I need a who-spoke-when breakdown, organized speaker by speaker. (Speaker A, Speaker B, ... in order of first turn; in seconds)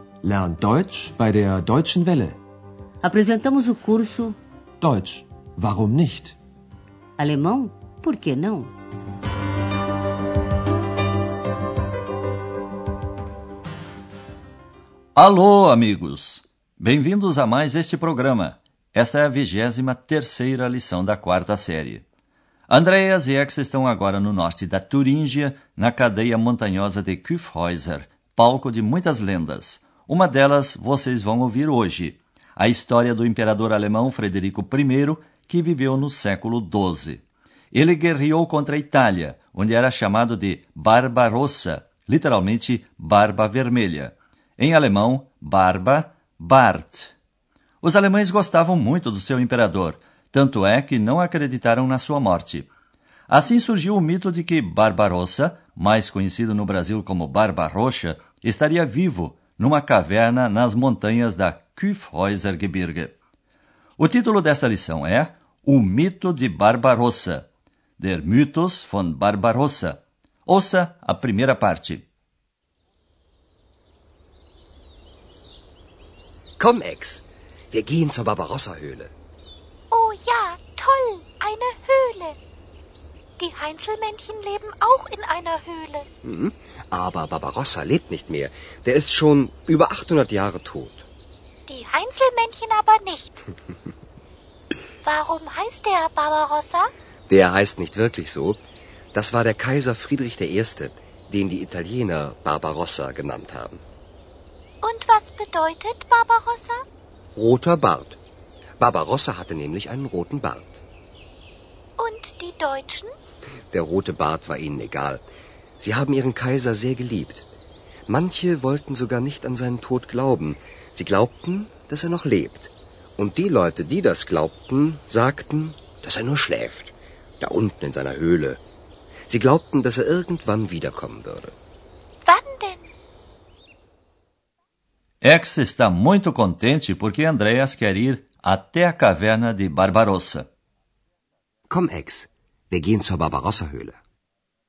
Speaker A: 0.2-2.4, 4.8-6.4
Speaker B: 3.0-4.4, 7.2-8.7
Speaker C: 15.2-22.1, 22.7-47.1, 47.8-52.7, 53.3-63.1, 64.0-72.1, 135.2-140.5
Speaker D: 76.6-79.1, 86.2-91.1, 97.3-98.6, 99.1-103.8, 107.3-108.2, 108.8-110.8, 113.7-115.2, 115.8-117.5, 118.1-128.6, 129.3-131.5, 141.7-144.0
Speaker E: 79.9-82.4, 83.4-86.1, 91.7-93.5, 95.0-96.9, 104.8-106.8, 112.0-113.1, 132.2-132.9